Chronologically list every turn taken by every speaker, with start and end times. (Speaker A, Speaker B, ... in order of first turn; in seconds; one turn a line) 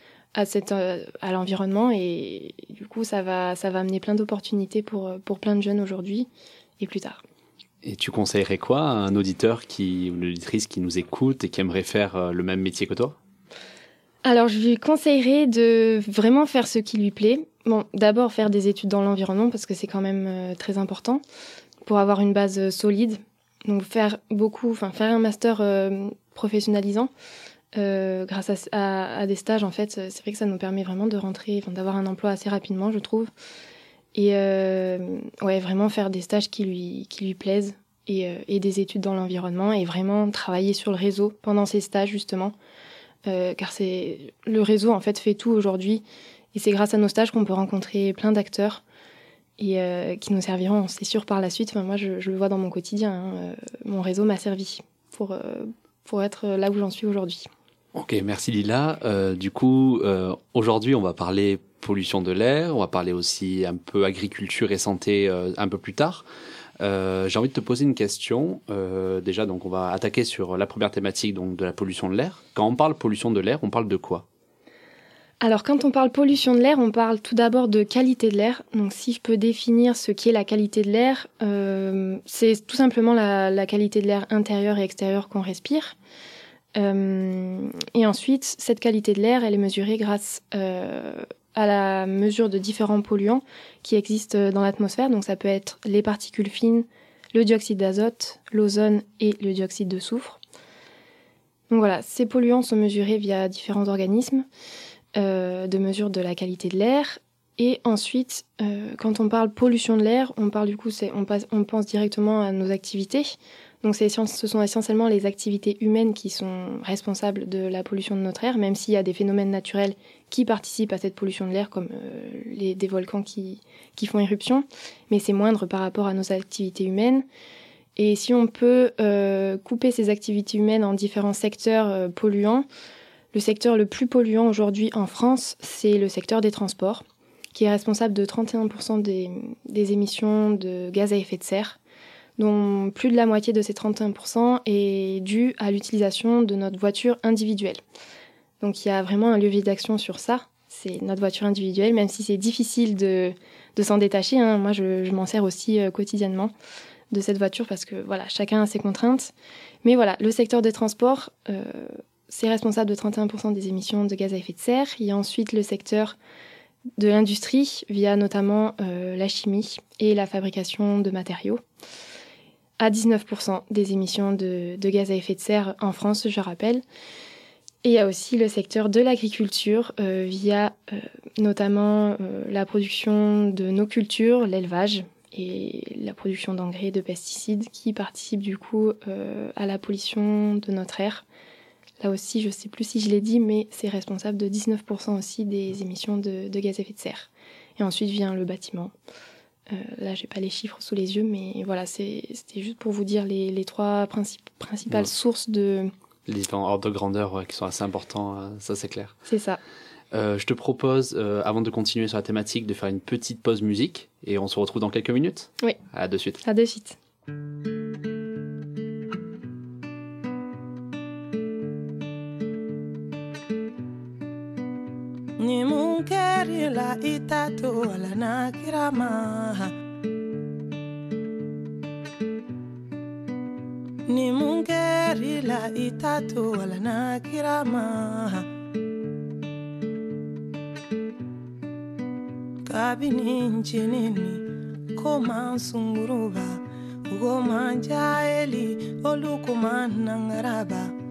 Speaker A: 0.3-6.3
Speaker A: 6.8-7.2
Speaker B: 7.8-13.2
Speaker A: 14.2-21.2
Speaker A: 21.8-27.1
Speaker A: 27.7-33.3
Speaker A: 34.1-42.5
Speaker A: 43.2-46.0
Speaker A: 46.5-48.8
Speaker A: 49.6-57.5
Speaker B: 57.9-66.2
Speaker B: 66.8-74.2
Speaker A: 75.4-86.0
Speaker A: 86.8-100.4
Speaker A: 101.7-104.5
Speaker A: 105.2-127.2
Speaker A: 128.0-132.7
Speaker A: 133.3-141.8
Speaker A: 142.4-147.8
Speaker A: 148.6-156.5
Speaker A: 157.1-159.3
Speaker A: 159.8-166.2
Speaker A: 167.0-171.6
Speaker A: 172.8-176.8
Speaker A: 177.8-191.2
Speaker A: 192.0-198.9
Speaker A: 199.7-205.9
Speaker B: 206.3-209.2
Speaker A: 209.3-209.6
Speaker B: 210.1-216.4
Speaker A: 216.4-217.0
Speaker C: 225.4-229.7
Speaker C: 234.1-238.5
Speaker C: 242.6-250.9